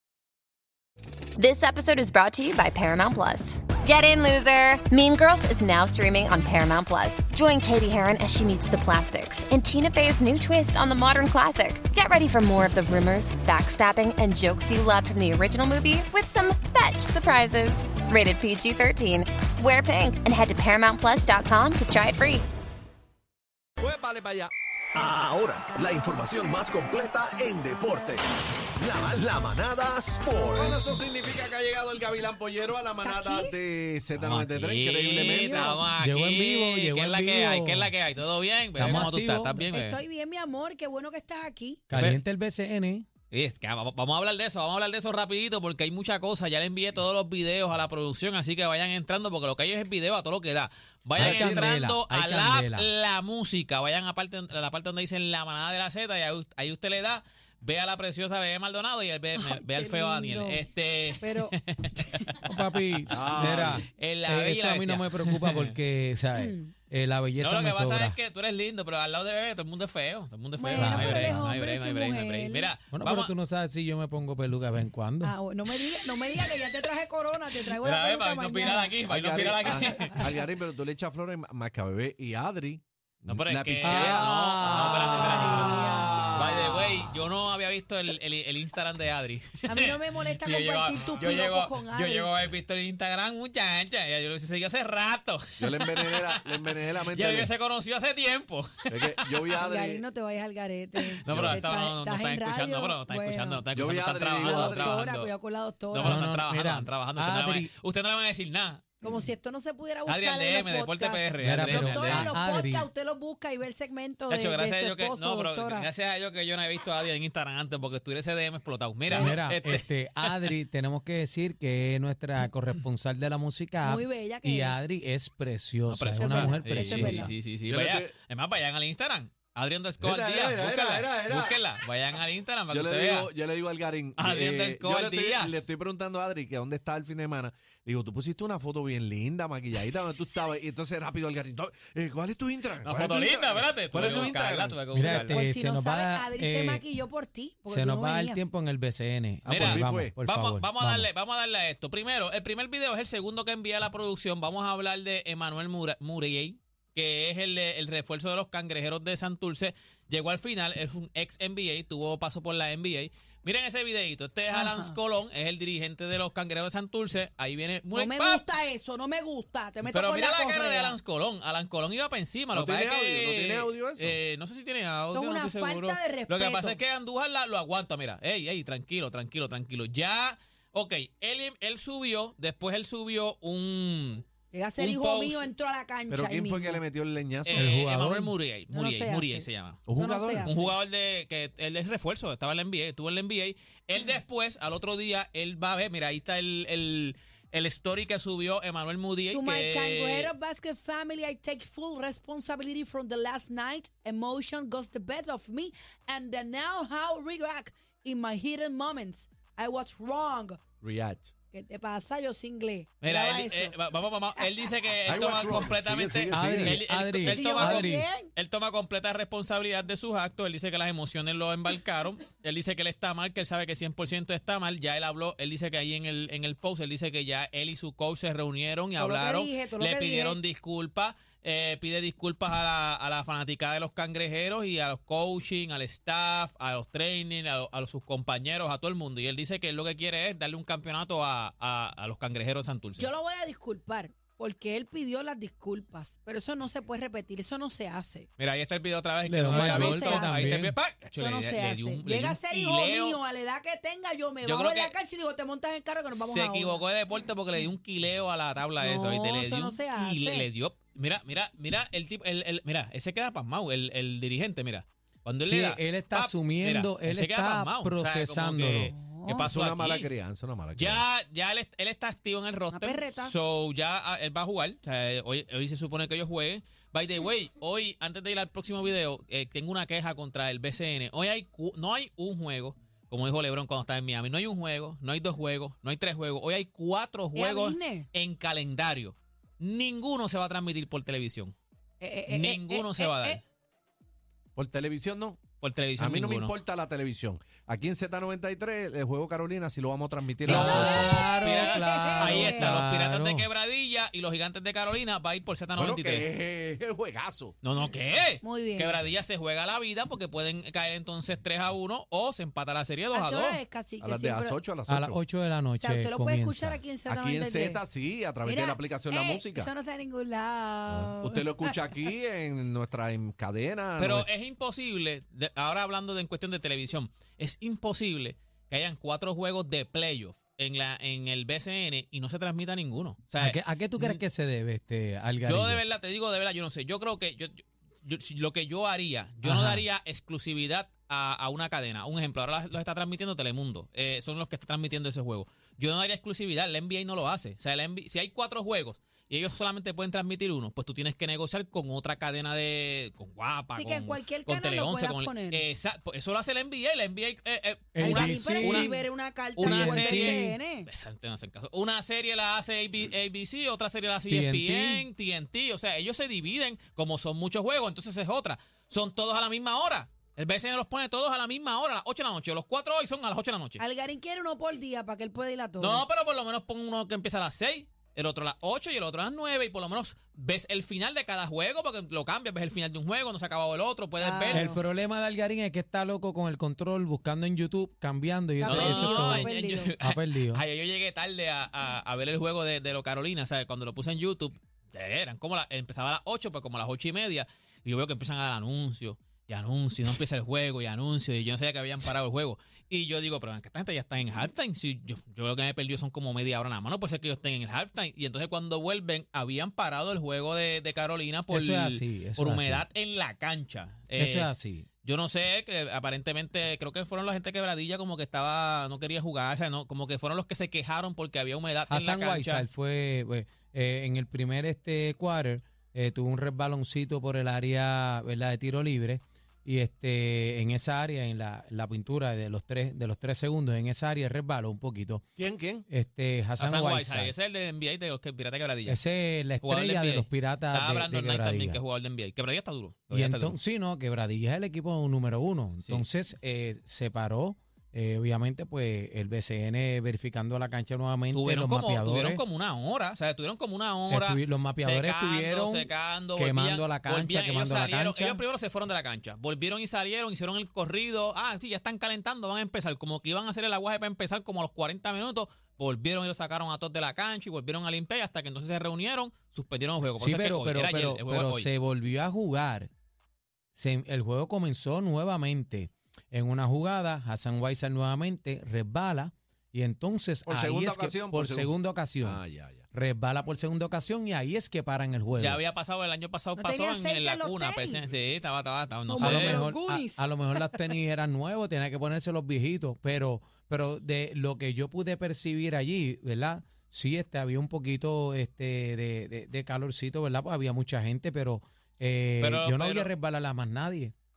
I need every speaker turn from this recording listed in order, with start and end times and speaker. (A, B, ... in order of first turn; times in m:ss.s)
0:01.4-0:22.4 A
0:23.8-0:24.5 B
0:25.0-0:27.0 C
0:27.5-0:28.2 C
0:29.0-0:30.7 C
0:30.4-0:35.8 B
0:33.0-0:33.5 D
0:34.2-0:40.0 E
0:35.1-0:35.8 D
0:36.0-0:37.9 F
0:38.8-0:39.6 F
0:39.7-0:41.8 D
0:41.9-0:43.0 F
0:41.9-0:42.2 E
0:43.3-1:02.4 E
0:51.2-0:52.9 F
0:51.2-0:51.6 D
0:59.4-1:00.6 D
1:01.2-1:02.2 D
1:02.4-1:08.2 F
1:03.0-1:05.7 E
1:03.1-1:03.8 B
1:06.3-1:06.7 D
1:07.4-1:13.3 E
1:10.6-1:12.7 D
1:10.7-1:11.4 F
1:12.9-1:15.3 F
1:15.2-1:20.4 D
1:16.3-1:16.8 E
1:17.8-1:20.3 E
1:19.1-1:27.1 B
1:23.3-1:36.3 E
1:23.8-1:26.1 F
1:25.2-1:26.4 D
1:29.6-1:32.5 D
1:35.6-1:37.5 B
1:37.0-1:39.4 E
1:38.9-1:40.0 B
1:39.6-1:43.6 D
1:41.0-1:45.3 E
1:41.2-1:41.6 B
1:43.7-1:45.0 B
1:44.4-1:46.2 D
1:45.9-1:49.0 E
1:46.0-1:47.7 F
1:49.0-1:55.9 D
1:50.1-1:52.3 E
1:51.4-1:52.9 F
1:54.3-2:00.5 E
1:59.1-2:07.3 F
1:59.1-1:59.4 D
2:03.8-2:04.9 D
2:05.9-2:13.3 E
2:06.2-2:07.3 D
2:07.6-2:08.1 B
2:10.0-2:11.6 B
2:12.7-2:24.8 B
2:14.2-2:15.6 E
2:22.8-2:25.4 E
2:24.9-2:26.9 F
2:25.0-2:28.5 D
2:27.7-2:31.1 F
2:29.4-2:30.1 B
2:29.4-2:48.4 E
2:44.5-2:45.0 D
2:47.9-2:51.0 D
2:49.8-3:04.2 E
2:52.5-2:54.2 B
2:55.1-2:56.8 D
3:04.5-3:06.8 D
3:04.8-3:05.5 E
3:06.1-3:07.7 B
3:07.4-3:09.8 E
3:07.5-3:08.3 F
3:08.7-3:10.7 D
3:09.9-3:10.5 B
3:10.4-3:20.3 E
3:19.3-3:30.6 D
3:30.8-3:31.3 B
3:31.5-3:33.7 D
3:33.0-4:03.1 E
3:35.0-3:36.8 B
3:36.3-3:38.1 F
3:37.2-3:38.3 D
3:49.0-3:50.4 D
4:03.0-4:08.3 D
4:08.4-4:13.2 E
4:09.2-4:10.7 F
4:09.5-4:10.5 D
4:11.1-4:16.8 D
4:14.4-4:14.9 E
4:16.1-4:30.1 E
4:18.8-4:20.5 D
4:25.4-4:28.9 F
4:28.8-4:29.5 D
4:29.4-4:31.0 B
4:30.7-4:51.6 E
4:32.7-4:33.3 D
4:47.3-4:48.1 D
4:52.0-4:53.4 D
4:52.3-4:53.4 E
4:54.6-4:55.4 B
4:55.6-4:56.5 E
4:56.0-5:01.2 B
5:00.4-5:03.5 F
5:00.4-5:06.3 E
5:00.5-5:02.8 D
5:05.7-5:07.5 B
5:07.6-5:13.6 E
5:08.4-5:09.0 D
5:13.1-5:14.6 D
5:14.0-5:15.2 B
5:14.9-5:16.8 F
5:15.8-5:17.8 D
5:17.1-5:19.7 B
5:18.4-5:21.8 D
5:20.9-5:24.2 B
5:24.0-5:34.2 E
5:33.4-5:35.8 F
5:35.4-5:58.9 E
5:39.4-5:39.8 F
5:53.7-5:55.6 D
5:57.9-5:59.0 F
5:58.0-6:00.9 D
5:59.6-6:13.8 E
5:59.6-6:00.6 F
6:04.3-6:05.1 F
6:13.8-6:16.0 D
6:15.8-6:24.7 E
6:24.2-6:24.8 D
6:24.5-6:30.6 F
6:28.6-6:29.9 D
6:28.6-6:54.5 E
6:51.5-6:52.8 F
6:54.2-6:54.8 F
6:55.0-7:02.7 E
7:01.9-7:15.2 F
7:15.4-7:15.8 B
7:15.9-7:17.3 F
7:16.6-7:19.0 E
7:18.8-7:21.8 F
7:19.6-7:23.6 E
7:23.1-7:32.4 F
7:31.3-7:51.7 E
7:34.1-7:38.4 F
7:50.2-7:52.9 F
7:53.8-8:02.4 F
8:00.5-8:01.7 B
8:02.2-8:02.8 B
8:02.9-8:05.6 F
8:05.4-8:09.6 E
8:06.6-8:08.1 D
8:09.1-8:10.9 D
8:09.2-8:24.1 F
8:22.4-8:23.1 E